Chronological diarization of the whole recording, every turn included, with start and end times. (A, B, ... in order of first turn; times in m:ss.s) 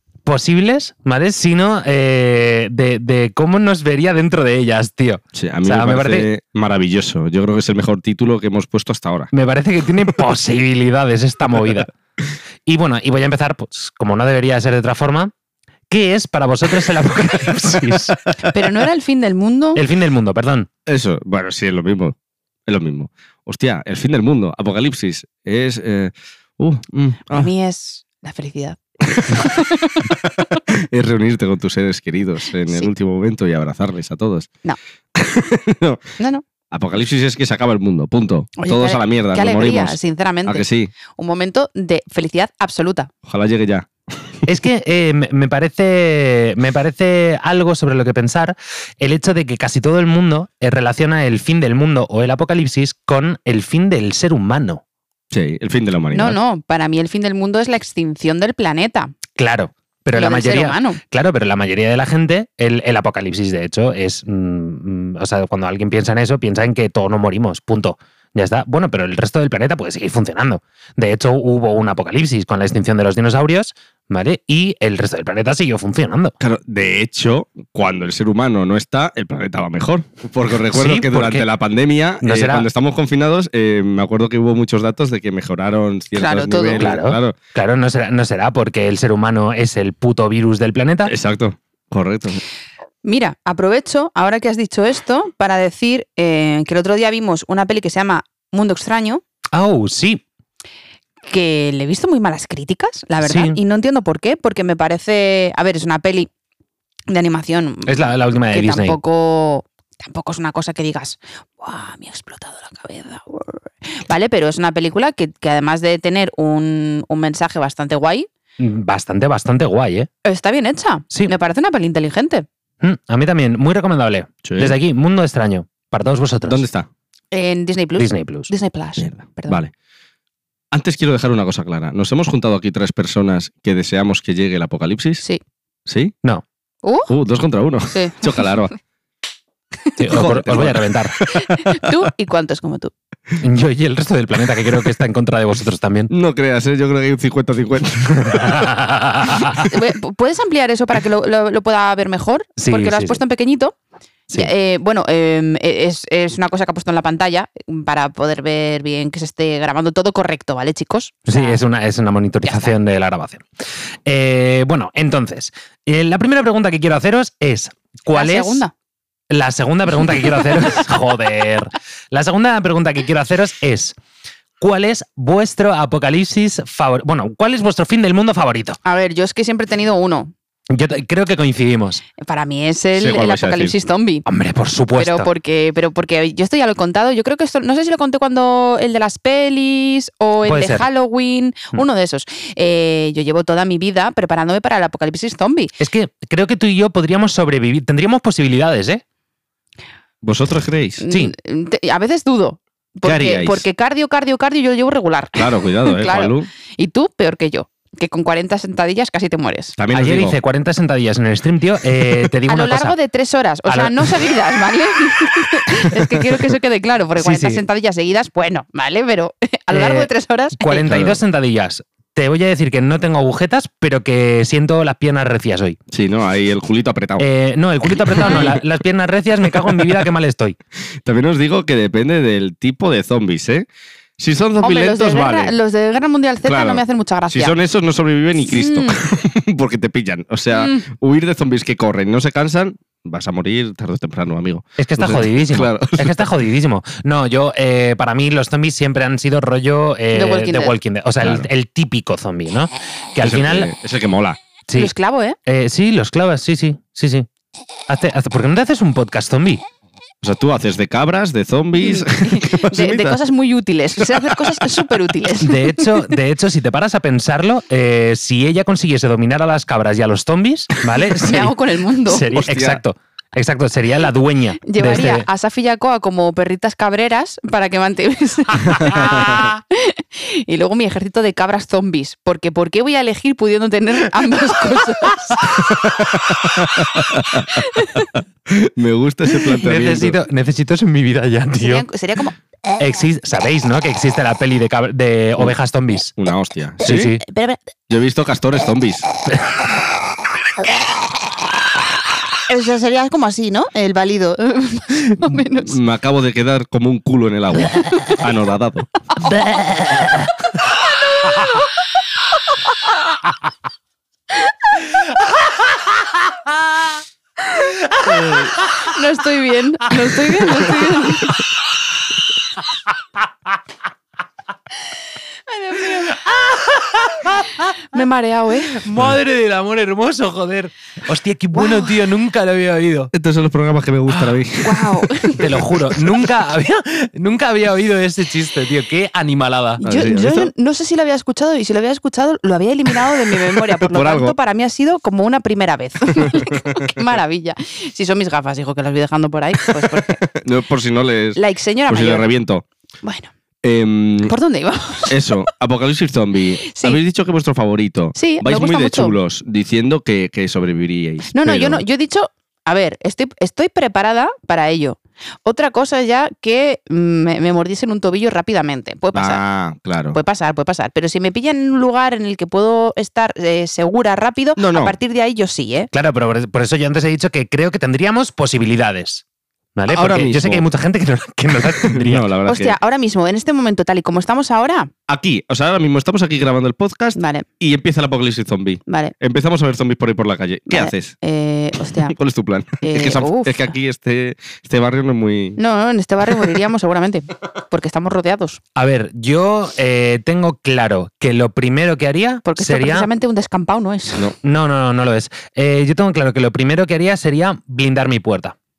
0:00.2-0:06.3 A
0:05.3-0:09.3 B
0:09.3-0:11.9 A
0:12.6-0:15.3 A
0:15.9-0:18.2 A
0:17.8-0:18.6 B
0:18.5-0:19.8 C
0:19.8-0:20.7 A
0:20.9-0:22.2 B
0:22.7-0:27.5 B
0:27.3-0:30.6 C
0:29.2-0:29.6 B
0:30.3-0:34.5 B
0:35.1-0:36.1 B
0:36.2-0:36.4 C
0:36.7-0:40.9 B
0:38.6-0:43.1 C
0:43.2-0:43.9 B
0:44.5-0:54.8 A
0:55.3-0:56.4 B
0:56.1-0:59.2 C
0:59.4-1:16.4 A
1:00.1-1:01.0 C
1:16.4-1:27.4 B
1:20.7-1:21.5 A
1:22.2-1:22.7 A
1:26.1-1:26.9 C
1:26.8-1:31.1 A
1:31.0-1:32.4 B
1:33.0-1:39.2 C
1:39.5-1:40.2 A
1:41.2-1:46.3 C
1:43.2-1:43.6 A
1:47.1-1:58.3 C
1:47.8-1:49.0 A
1:58.6-2:00.1 A
2:00.2-2:02.4 C
2:02.8-2:06.7 A
2:04.4-2:04.7 B
2:06.5-2:06.9 B
2:07.3-2:09.6 C
2:08.0-2:08.5 A
2:09.0-2:09.7 B
2:10.7-2:15.2 B
2:15.8-2:16.1 B
2:16.8-2:17.1 C
2:17.1-2:18.7 B
2:17.9-2:18.4 C
2:20.0-2:21.2 A
2:20.1-2:22.0 B
2:21.4-2:22.9 C
2:23.4-2:26.1 A
2:26.1-2:29.6 B
2:28.1-2:29.7 A
2:29.7-2:33.7 C
2:32.6-2:33.2 A
2:34.3-2:41.6 C
2:41.3-2:43.4 A
2:42.4-2:42.7 C
2:44.0-2:48.6 A
2:48.1-2:48.7 C
2:49.3-2:54.0 A
2:54.6-2:58.8 A
2:58.8-3:00.3 C
3:00.7-3:02.0 A
3:02.2-3:04.2 C
3:03.0-3:03.8 B
3:04.2-3:05.3 A
3:05.0-3:15.7 C
3:10.4-3:10.9 A
3:15.8-3:19.0 A
3:20.2-3:21.0 B
3:21.0-3:29.7 C
3:23.0-3:23.6 B
3:25.3-3:26.5 B
3:29.8-3:30.4 B
3:29.9-3:33.0 A
3:32.5-3:40.9 C
3:33.7-3:34.1 A
3:35.9-3:36.3 B
3:37.2-3:37.6 A
3:39.7-3:45.8 A
3:40.8-3:41.2 B
3:45.9-3:47.2 B
3:47.2-3:50.6 A
3:48.1-3:48.6 B
3:48.2-3:48.5 C
3:49.5-3:50.0 B
3:51.0-3:53.6 B
3:54.2-3:55.6 B
3:54.6-3:57.5 C
3:56.4-4:06.2 B
3:58.4-3:59.0 C
4:00.5-4:00.8 C
4:04.8-4:13.7 A
4:10.1-4:10.7 C
4:11.2-4:11.5 B
4:13.2-4:14.4 B
4:14.8-4:15.4 C
4:15.4-4:17.3 A
4:17.9-4:19.6 A
4:20.2-4:23.2 B
4:21.8-4:26.1 C
4:24.0-4:24.7 B
4:25.4-4:35.3 A
4:31.2-4:32.3 C
4:32.3-4:32.8 B
4:34.6-4:45.6 C
4:38.6-4:39.6 A
4:38.8-4:39.4 B
4:45.6-4:50.2 B
4:47.6-4:48.1 C
4:49.3-4:51.8 A
4:51.6-4:52.4 C
4:52.8-4:56.1 A
4:56.2-4:57.1 B
4:56.8-4:57.2 A
4:56.9-4:57.6 C
4:57.9-4:59.1 B
5:02.4-5:05.8 C
5:05.6-5:08.9 B
5:07.7-5:08.2 C
5:09.4-5:10.0 C
5:11.1-5:11.6 C
5:17.7-5:18.9 A
5:18.0-5:21.4 C
5:20.5-5:21.4 A
5:25.5-5:26.2 C
5:25.8-5:27.8 A
5:27.8-5:28.8 C
5:28.7-5:33.1 A
5:31.6-5:31.9 C
5:33.1-5:35.1 B
5:34.6-5:35.6 C
5:35.3-5:39.8 A
5:39.8-5:50.3 C
5:39.8-5:40.5 B
5:43.1-5:44.4 B
5:46.2-5:46.9 B
5:49.8-5:52.6 B
5:51.3-5:52.3 C
5:53.0-5:53.3 C
5:53.6-5:54.3 B
5:54.2-5:55.4 C
5:55.1-6:01.8 B
5:56.7-5:57.0 C
5:58.2-5:59.2 C
6:01.3-6:09.4 C
6:09.1-6:10.2 B
6:10.1-6:15.9 C
6:14.6-6:15.0 B
6:15.9-6:19.2 A
6:19.8-6:22.3 A
6:19.9-6:20.7 B
6:21.6-6:22.8 B
6:22.4-6:24.9 C
6:25.1-6:31.1 B
6:27.2-6:27.4 C
6:28.9-6:29.1 C
6:30.7-6:32.2 C
6:31.8-6:35.6 B
6:32.8-6:33.6 C
6:35.6-6:38.6 C
6:36.3-6:36.6 B
6:38.8-6:43.1 A
6:42.4-6:44.3 C
6:44.4-6:48.6 A